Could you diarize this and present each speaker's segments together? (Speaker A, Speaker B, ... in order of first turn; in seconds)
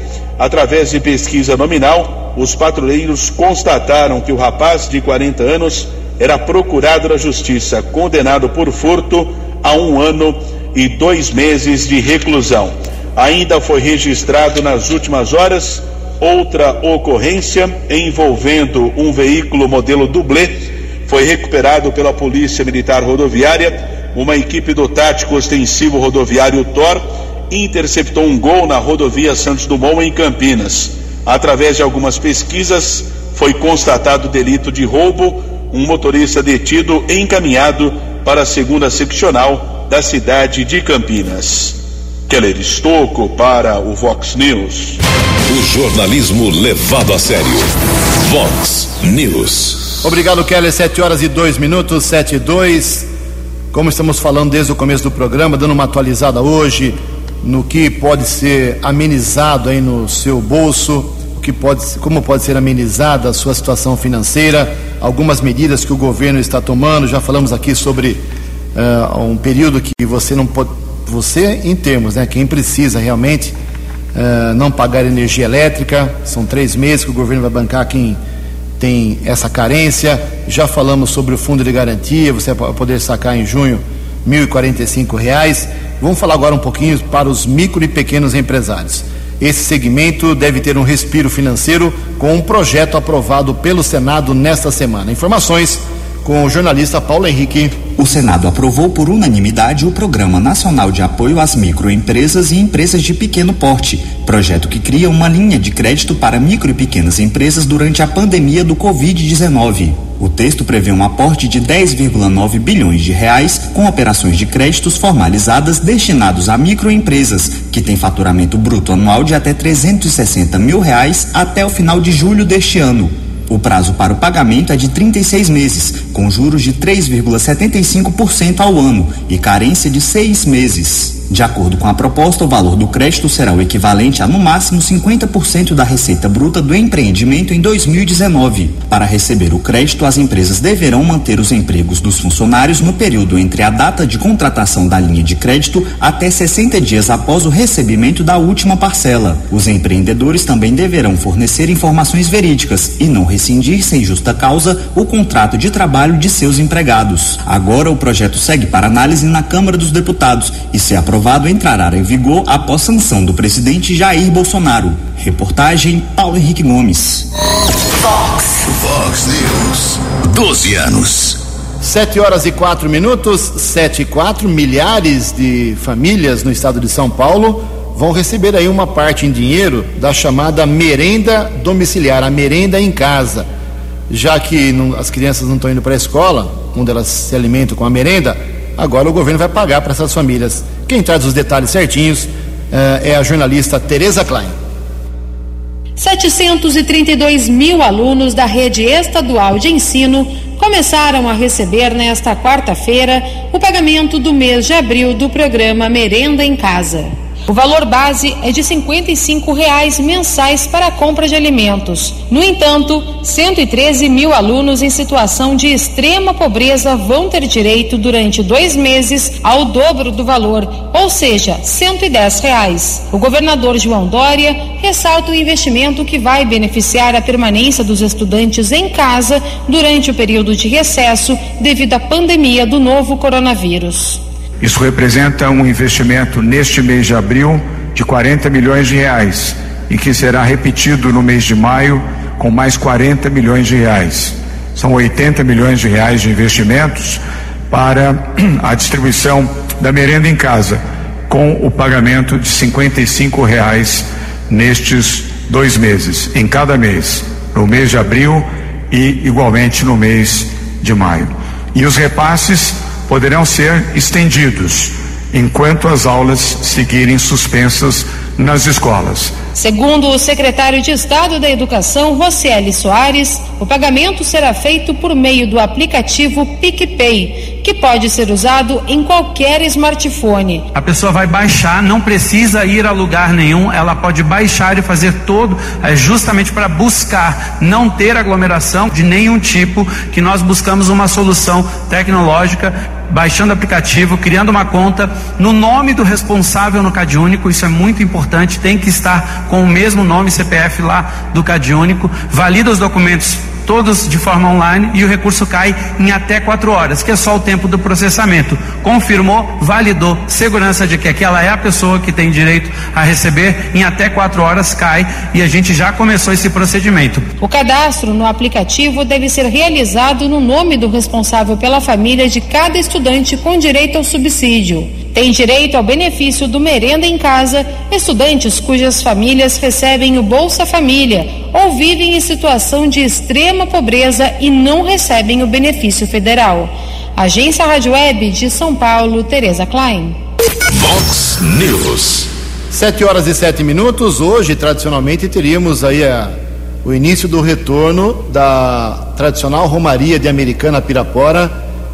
Speaker A: 0.4-20.6, 21.1-45.0
Speaker B: 45.5-47.7, 48.2-49.9, 340.7-342.3
Speaker C: 50.0-53.1, 53.7-68.2, 68.7-73.5, 74.1-78.2, 78.8-97.8, 171.8-183.5, 184.1-194.5, 342.7-351.5
Speaker D: 98.0-167.3
Speaker E: 168.4-171.4
Speaker F: 196.0-234.2, 269.5-280.6, 317.4-340.2
Speaker G: 234.6-269.3
Speaker H: 280.7-317.2